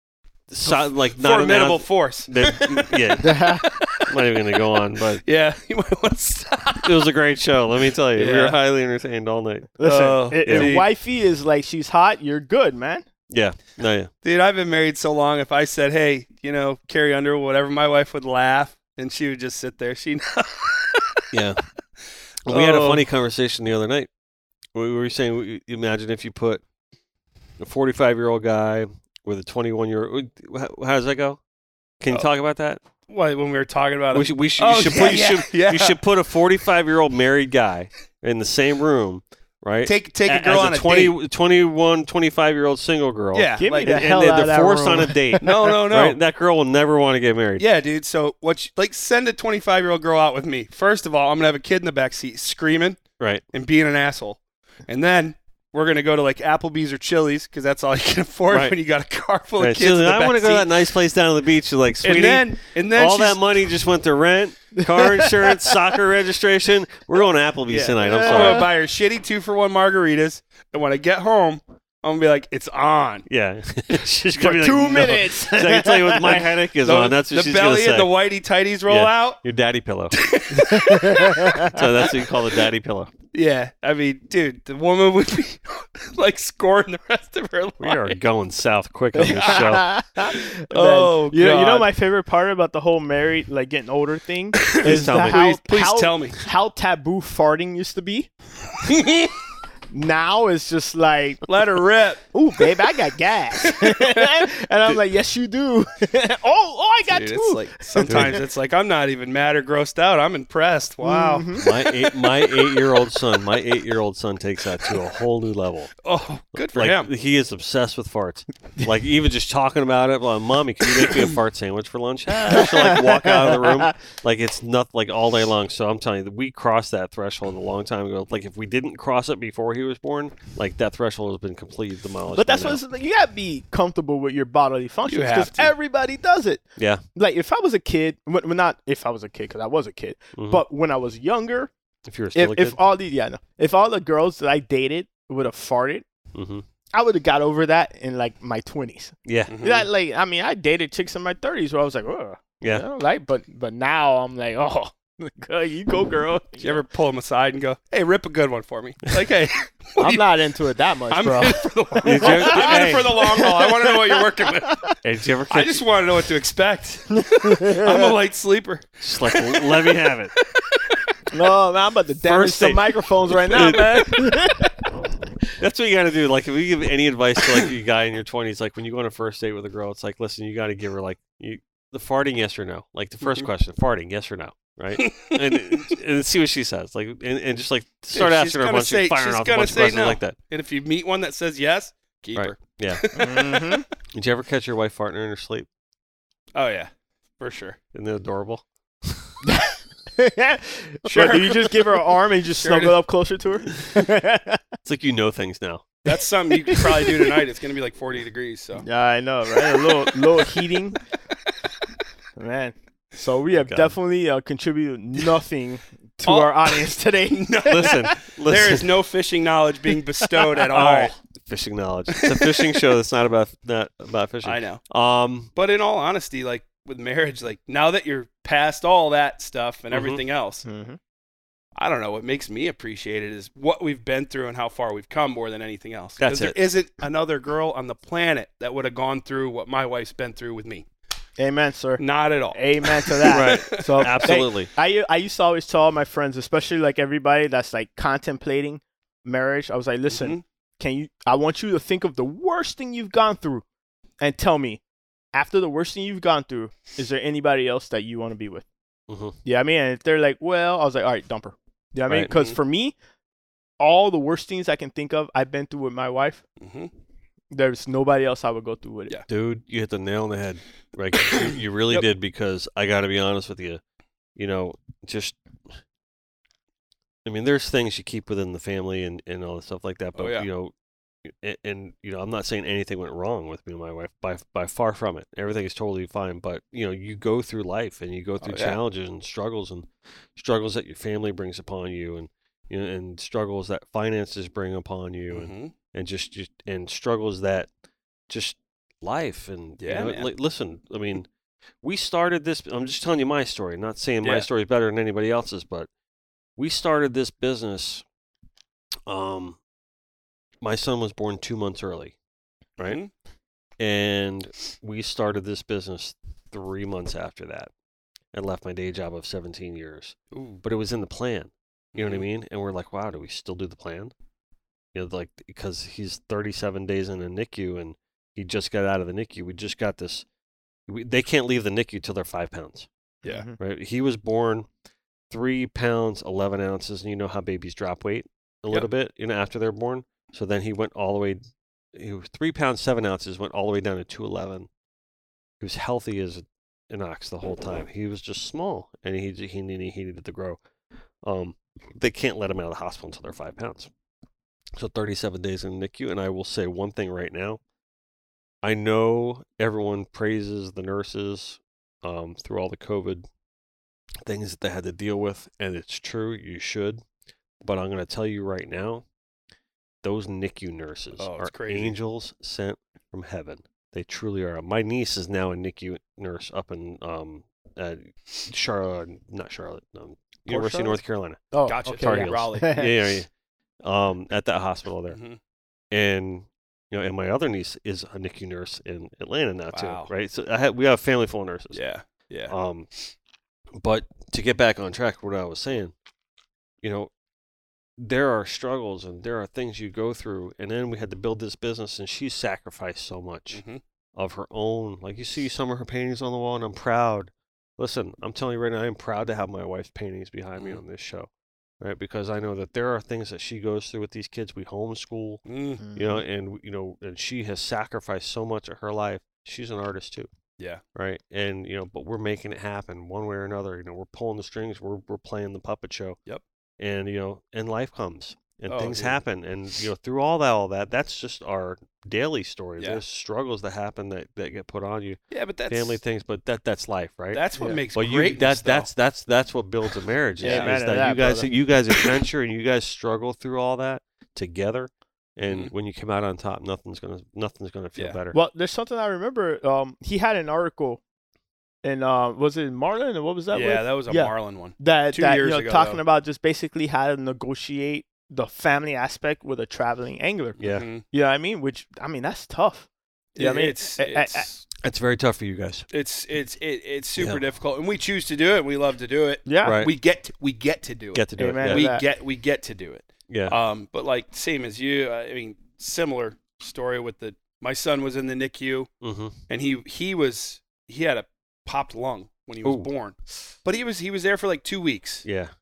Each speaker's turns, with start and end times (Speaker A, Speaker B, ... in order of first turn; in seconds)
Speaker A: 0.5-3.4, 4.0-5.2, 6.8-9.8, 10.4-10.8, 13.3-14.1, 21.3-21.6, 22.4-24.1, 24.7-26.6, 27.6-31.4, 32.0-32.8, 34.1-47.6, 58.5-58.7, 59.6-68.7, 73.3-78.1, 78.9-80.2, 81.6-83.1, 87.8-89.9, 94.8-95.4, 108.1-108.4, 111.6-115.9, 116.7-132.8, 136.8-137.0, 140.3-140.6, 142.1-142.8, 146.3-146.6, 149.2-149.5, 162.0-163.1, 165.0-165.8, 169.0-170.3, 172.2-174.3, 175.6-190.3, 192.3-193.3, 194.1-195.7, 197.9-199.3, 204.8-205.9, 213.6-213.9, 217.7-218.8, 220.6-225.5, 229.9-230.2, 236.2-236.6, 243.3-244.7, 259.1-259.4, 269.3-273.8, 274.4-275.4, 277.2-280.7, 281.2-297.7, 298.3-301.3, 301.8-305.9, 306.6-308.0, 309.1-309.6, 310.6-312.1, 313.8-317.7, 318.3-324.1, 324.9-330.2, 330.9-332.9, 333.6-334.7, 335.3-341.4, 341.9-344.7, 345.6-350.6, 351.2-353.9, 354.8-357.6, 358.6-363.3, 364.2-367.0, 367.6-369.0, 370.0-383.3, 383.8-385.2, 385.9-391.8, 392.5-392.9, 393.8-395.9, 396.8-397.1, 398.0-403.6, 404.1-415.4, 415.9-420.3, 420.9-426.2, 426.8-448.4, 460.6-460.9, 464.8-465.8, 469.6-469.9, 471.1-471.9, 473.3-473.6, 479.0-479.3, 482.6-482.9, 485.2-485.5
Speaker B: 0.6-4.4, 5.2-7.1, 8.1-8.6, 9.8-10.9, 14.2-21.2, 22.5-23.0, 33.1-36.0, 39.8-41.1, 43.3-44.2, 45.4-46.2, 47.6-60.8, 62.0-63.4, 67.7-73.3, 76.8-79.4, 80.1-81.7, 83.3-88.2, 89.2-89.7, 90.3-91.9, 94.6-96.4, 98.8-99.3, 101.5-102.2, 103.6-104.3, 107.1-113.0, 116.0-117.1, 135.1-135.7, 149.5-149.9, 156.6-160.3, 161.1-164.8, 165.5-170.9, 183.2-183.5, 185.0-185.9, 188.1-193.8, 196.5-197.8, 201.1-201.8, 202.6-203.0, 206.0-208.8, 216.2-221.1, 222.2-222.8, 224.4-224.8, 225.5-230.6, 231.8-240.8, 242.0-244.3, 250.1-250.4, 262.3-262.6, 266.6-266.9, 271.3-272.1, 280.1-280.5, 288.4-288.8, 295.3-295.7, 299.8-300.3, 304.2-304.5, 312.8-313.1, 320.3-320.6, 321.9-322.2, 371.2-371.9, 380.5-381.0, 381.6-382.9, 385.1-385.4, 389.7-390.1, 391.7-392.5, 403.5-403.8, 410.6-410.8, 415.4-415.9, 428.7-429.2, 435.3-436.0, 437.3-438.9, 440.4-440.9, 445.5-445.7, 453.5-456.0, 460.6-461.0, 463.3-464.6, 465.9-478.9, 479.5-485.2
Speaker C: 3.2-3.7, 9.8-13.0, 43.6-45.5, 68.0-68.7, 74.4-76.5, 80.5-81.7, 89.2-98.3, 99.9-101.4, 102.3-108.4, 111.0-111.6, 122.5-123.9, 132.3-136.6, 137.1-141.7, 142.3-146.0, 146.9-156.8, 160.0-164.9, 167.2-168.1, 171.3-174.7, 193.1-193.8, 199.4-204.6, 206.7-207.1, 208.8-211.0, 212.4-218.1, 230.6-231.0, 241.4-253.6, 254.2-254.8, 255.3-258.6, 259.4-262.9, 263.8-266.4, 267.5-269.2, 333.2-333.6, 381.5-382.9, 415.8-416.2, 437.6-437.8, 440.4-441.5, 448.3-451.0, 451.8-460.6, 461.1-464.5, 469.4-469.8, 471.4-472.0